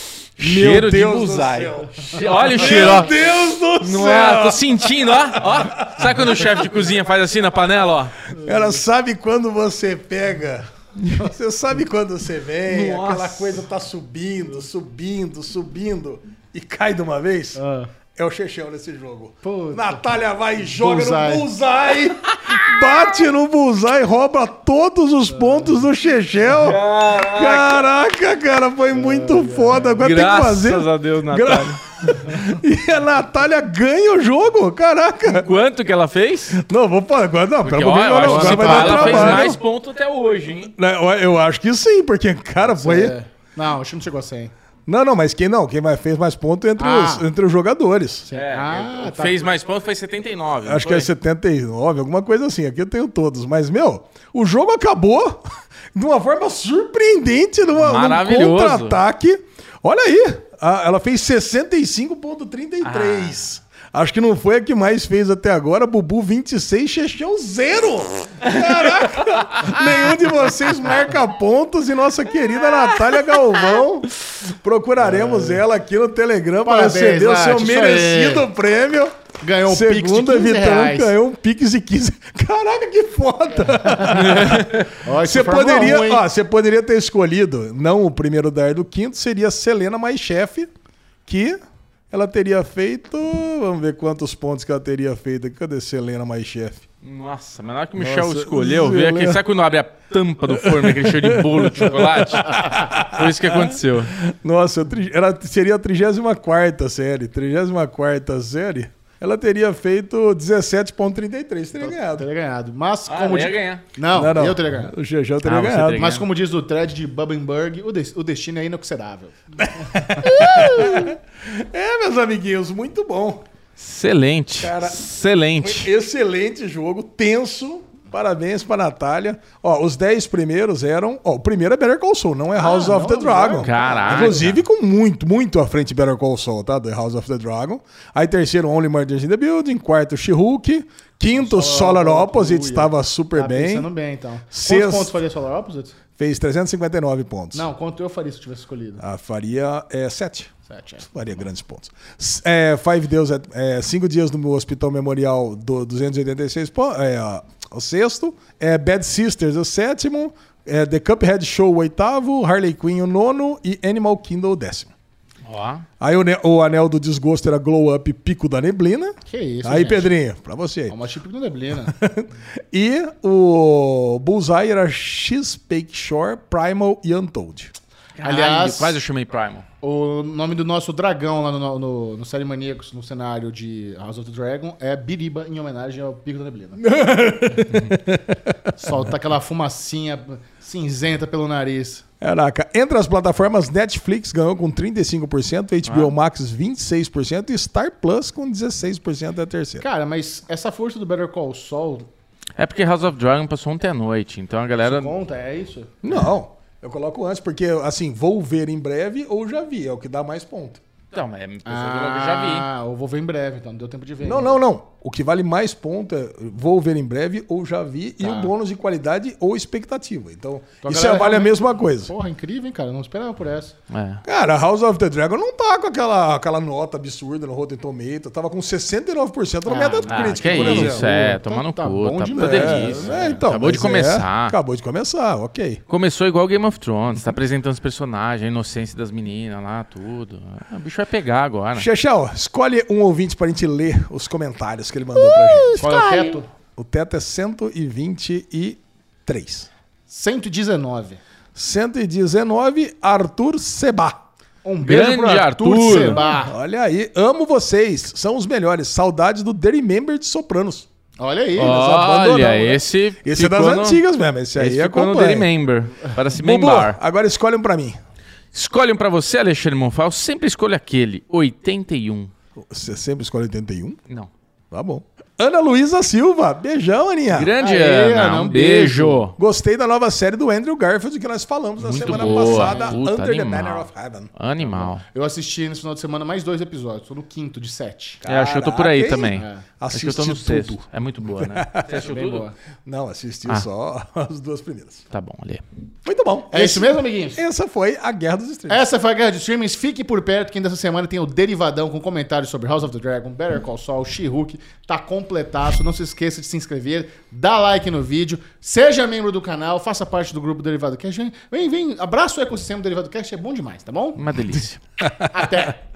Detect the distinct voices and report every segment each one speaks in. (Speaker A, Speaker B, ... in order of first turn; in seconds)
Speaker A: 0.4-6.7, 8.4-17.6, 18.1-35.6, 36.5-39.6, 40.6-43.2, 44.9-48.3, 50.6-79.1, 79.7-90.7, 91.3-91.6, 92.1-96.8, 98.0-99.4, 100.5-112.3, 114.1-116.1, 119.6-123.5, 124.6-143.9, 144.5-145.2, 146.2-147.7, 149.0-164.9, 166.0-171.0, 171.9-177.8, 186.8-189.0, 192.2-199.8, 206.0-210.8, 214.2-222.1, 224.2-231.1, 232.3-235.8, 241.8-245.8, 246.8-249.7, 251.6-254.2, 255.9-260.9, 261.6-265.5, 266.3-268.0, 272.6-274.0, 274.7-277.5, 279.4-284.3, 288.2-292.1, 292.9-295.0, 296.1-298.9, 315.0-315.7
Speaker B: 0.4-3.2, 3.8-8.2, 12.7-13.2, 26.5-27.9, 30.0-32.2, 35.3-36.6, 37.6-40.7, 48.3-51.1, 57.8-59.0, 62.8-63.4, 84.1-84.9, 97.0-104.2, 113.1-113.8, 115.4-116.3, 120.2-121.1, 123.8-125.9, 133.6-134.6, 165.4-165.9, 178.2-179.7, 195.9-196.1, 202.6-205.1, 211.1-212.7, 223.9-224.2, 230.1-234.6, 235.9-241.9, 245.2-246.4, 254.8-256.2, 261.6-264.0, 264.6-267.0, 268.5-272.3, 277.3-279.4, 281.8-285.0, 288.3-292.5, 295.1-295.6, 314.2-314.8
Speaker C: 2.2-3.0, 8.3-8.8, 17.6-17.9, 19.4-20.0, 20.6-21.5, 25.3-25.7, 28.9-30.1, 38.2-39.6, 42.6-44.5, 46.8-47.3, 48.2-49.5, 75.0-75.7, 76.6-78.5, 79.4-81.2, 83.6-86.2, 111.8-114.9, 115.9-120.3, 132.6-134.5, 141.3-146.0, 147.5-149.0, 150.7-151.1, 169.3-170.2, 170.9-172.0, 178.2-179.0, 179.8-186.9, 188.8-192.0, 199.8-202.1, 204.8-206.0, 211.7-214.6, 218.2-218.5, 220.8-223.8, 229.7-233.4, 245.8-246.5, 250.1-251.2, 254.6-256.6, 261.2-261.8, 277.6-279.3, 282.0-283.0, 284.6-288.2, 289.4-289.6, 292.1-292.6, 296.5-297.4, 298.7-314.2, 315.3-315.8